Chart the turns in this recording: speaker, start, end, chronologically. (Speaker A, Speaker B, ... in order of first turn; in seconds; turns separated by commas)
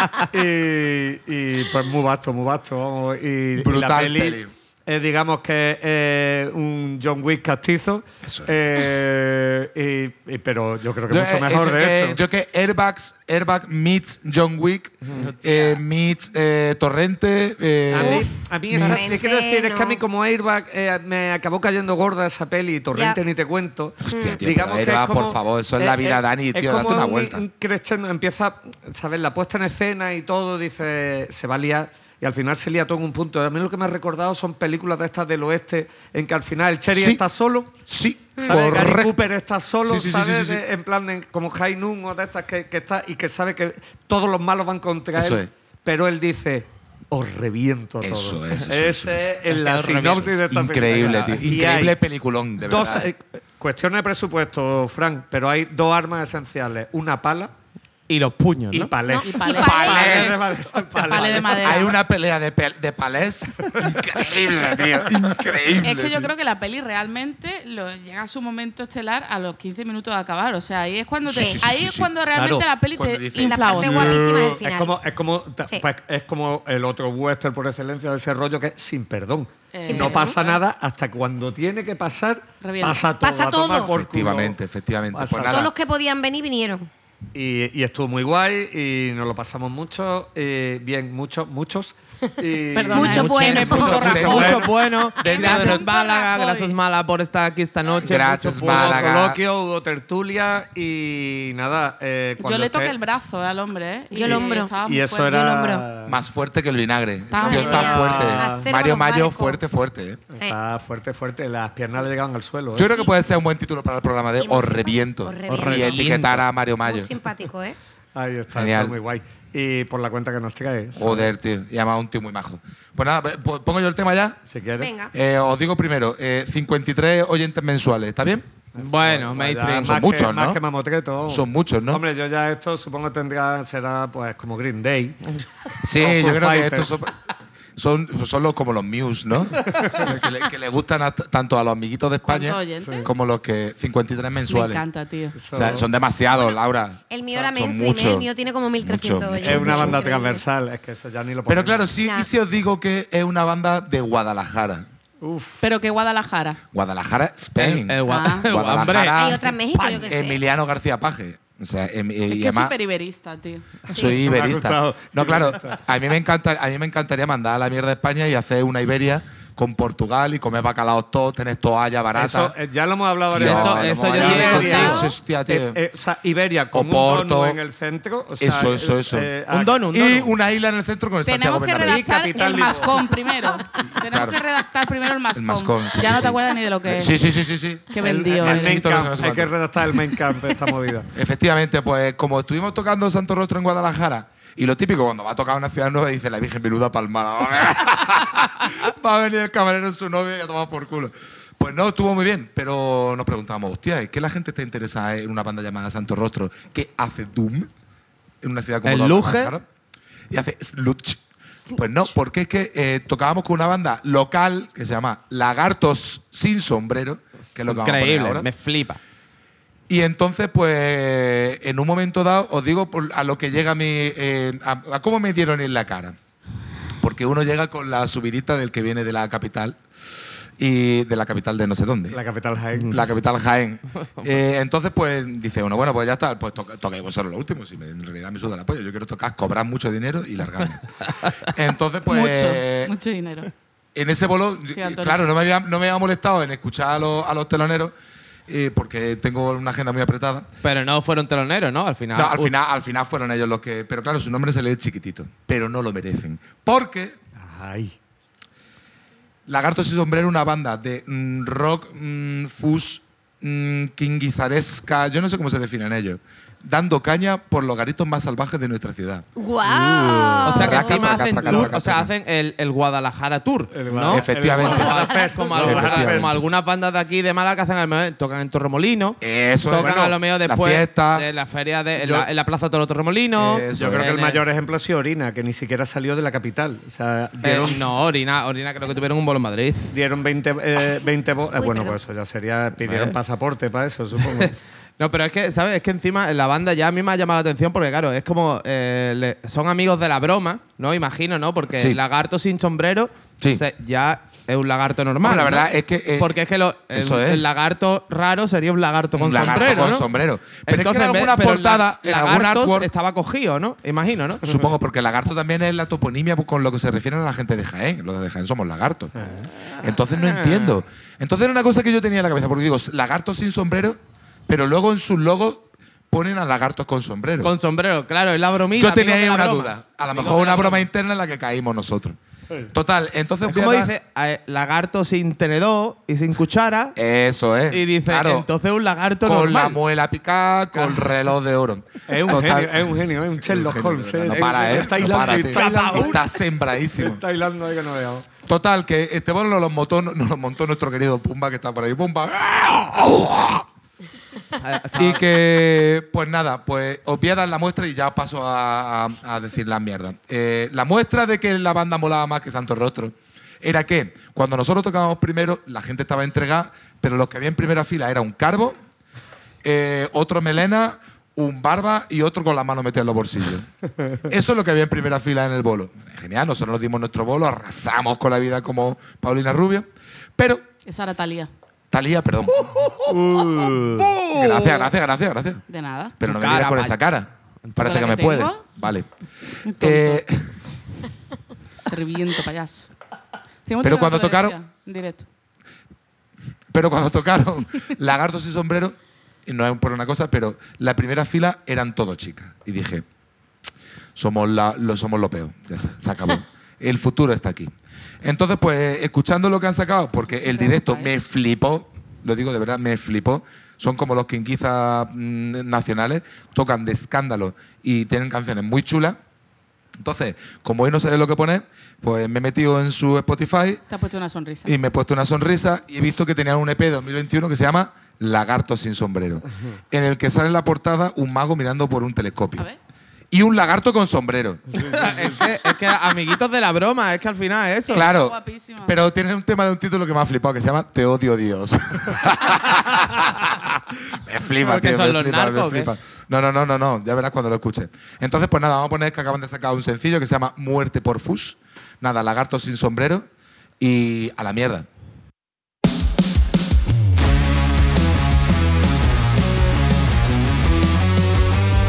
Speaker A: 0.2-12.2, Speaker B: 3.6-4.5, Speaker B: 8.2-8.5, Speaker B: 11.1-19.2, Speaker C: 15.1-15.8, Speaker A: 17.9-37.8, Speaker D: 18.0-18.2, Speaker D: 18.8-20.0, Speaker B: 24.0-27.4, Speaker D: 24.1-24.4, Speaker B: 36.9-37.2, Speaker B: 37.9-40.6, Speaker A: 38.4-52.0, Speaker B: 45.2-45.5, Speaker B: 48.0-49.3, Speaker C: 49.5-50.3, Speaker B: 49.9-53.1, Speaker A: 52.6-57.5, Speaker C: 58.1-58.9, Speaker A: 58.8-61.9, Speaker D: 59.0-60.5, Speaker E: 59.2-60.4, Speaker B: 59.6-60.4, Speaker E: 61.1-62.0, Speaker B: 61.6-66.3, Speaker E: 65.8-74.3, Speaker B: 71.3-72.1, Speaker D: 71.3-71.6, Speaker A: 72.3-72.7, Speaker B: 73.0-74.6, Speaker D: 73.3-75.0, Speaker A: 74.5-84.6, Speaker E: 79.7-80.6, Speaker D: 79.8-80.4, Speaker E: 82.6-83.0, Speaker D: 83.2-84.0, Speaker B: 83.9-85.7, Speaker A: 85.1-85.7, Speaker D: 85.5-86.9, Speaker A: 87.3-94.6, Speaker E: 92.8-94.7, Speaker D: 92.9-94.2, Speaker B: 93.2-94.6, Speaker C: 93.5-99.1, Speaker E: 95.2-96.8, Speaker B: 95.2-95.8, Speaker B: 98.0-99.4, Speaker A: 98.4-103.0, Speaker E: 102.4-105.4, Speaker D: 104.1-105.9, Speaker A: 104.2-106.2, Speaker B: 106.0-110.2, Speaker E: 107.3-108.0, Speaker D: 107.3-109.6, Speaker A: 107.4-108.7, Speaker A: 110.3-112.9, Speaker B: 112.8-117.1, Speaker D: 114.4-116.1, Speaker C: 115.5-116.5, Speaker D: 116.8-117.8, Speaker A: 118.1-121.3, Speaker B: 118.5-119.0, Speaker B: 121.0-124.4, Speaker A: 124.5-124.9, Speaker D: 124.8-125.1, Speaker B: 125.1-128.5, Speaker A: 128.8-137.0, Speaker C: 128.8-130.1, Speaker B: 129.8-130.6, Speaker B: 131.3-132.0, Speaker B: 135.8-137.1, Speaker B: 137.8-144.8, Speaker A: 139.7-140.1, Speaker E: 142.2-143.1, Speaker A: 142.8-143.1, Speaker E: 144.5-145.4, Speaker A: 145.3-145.9, Speaker B: 145.5-148.3, Speaker D: 147.1-150.4, Speaker B: 148.8-150.0, Speaker A: 149.4-151.9, Speaker B: 151.5-154.9, Speaker D: 152.0-152.3, Speaker A: 155.2-155.6, Speaker E: 155.6-156.6, Speaker B: 156.7-159.5, Speaker C: 157.6-160.1, Speaker E: 158.1-158.5, Speaker D: 159.1-160.4, Speaker B: 160.1-162.7, Speaker E: 162.3-163.9, Speaker B: 163.9-172.5, Speaker A: 163.9-165.8, Speaker A: 172.1-179.9, Speaker B: 173.3-175.8, Speaker C: 173.3-175.1, Speaker D: 174.6-175.1, Speaker B: 176.7-177.6, Speaker B: 178.4-179.3, Speaker C: 179.5-180.3, Speaker B: 179.9-182.1, Speaker E: 181.2-187.2, Speaker A: 181.8-183.1, Speaker B: 183.8-184.4, Speaker B: 185.3-189.5, Speaker E: 187.9-188.9, Speaker A: 188.0-191.1, Speaker B: 191.1-207.7, Speaker B: 208.4-209.6, Speaker C: 208.8-209.6, Speaker B: 210.3-211.2, Speaker B: 211.7-218.5, Speaker C: 217.7-219.0, Speaker B: 219.9-226.2, Speaker B: 227.0-229.8, Speaker B: 230.6-232.2, Speaker A: 232.1-233.0, Speaker B: 232.9-242.9, Speaker E: 242.1-243.5, Speaker B: 243.9-247.9, Speaker E: 244.7-245.2, Speaker B: 248.5-250.5, Speaker C: 250.6-252.5, Speaker B: 252.1-257.2, Speaker A: 257.4-258.0, Speaker B: 259.5-269.3, Speaker D: 269.4-271.1, Speaker A: 269.8-270.7, Speaker B: 270.4-272.1, Speaker C: 270.4-284.4, Speaker A: 271.4-271.7, Speaker A: 273.7-276.3, Speaker B: 274.1-276.4, Speaker B: 279.2-281.3, Speaker B: 283.4-284.1, Speaker A: 283.8-287.9, Speaker C: 287.4-289.9, Speaker A: 289.9-294.6, Speaker D: 291.6-292.0, Speaker C: 292.9-293.2, Speaker C: 295.0-310.1, Speaker B: 305.2-306.4, Speaker B: 306.9-307.4, Speaker B: 309.1-312.9, Speaker C: 310.6-314.7, Speaker B: 314.4-319.1, Speaker C: 319.5-320.8, Speaker B: 319.8-327.5, Speaker C: 327.4-330.9, Speaker B: 328.8-332.2, Speaker B: 332.7-333.9, Speaker C: 333.4-337.0, Speaker B: 337.0-338.5, Speaker C: 337.7-339.8, Speaker B: 339.2-347.2, Speaker C: 340.7-341.2, Speaker A: 342.1-346.2, Speaker C: 344.5-346.3, Speaker A: 347.0-348.3, Speaker B: 348.5-353.6, Speaker C: 354.6-355.3, Speaker B: 355.0-368.8, Speaker B: 369.6-373.7, Speaker B: 374.2-380.6, Speaker E: 380.9-381.5, Speaker B: 381.9-382.8, Speaker C: 382.5-384.9, Speaker A: 383.1-384.1, Speaker B: 384.3-385.6, Speaker E: 385.7-386.1, Speaker B: 386.2-389.1, Speaker C: 386.2-387.0, Speaker C: 387.7-387.9, Speaker E: 387.8-388.6, Speaker E: 389.7-390.2, Speaker B: 389.7-390.5, Speaker E: 391.9-392.9, Speaker E: 393.7-395.3, Speaker B: 393.8-394.6, Speaker B: 396.7-403.1, Speaker B: 404.1-407.7, Speaker B: 408.2-419.2, Speaker E: 410.5-411.1, Speaker B: 420.0-423.8, Speaker E: 423.9-424.7, Speaker B: 424.7-432.6, Speaker B: 433.3-435.2, Speaker C: 434.8-438.1, Speaker E: 437.9-439.0, Speaker B: 437.9-453.3, Speaker C: 444.6-445.9, Speaker B: 453.8-454.9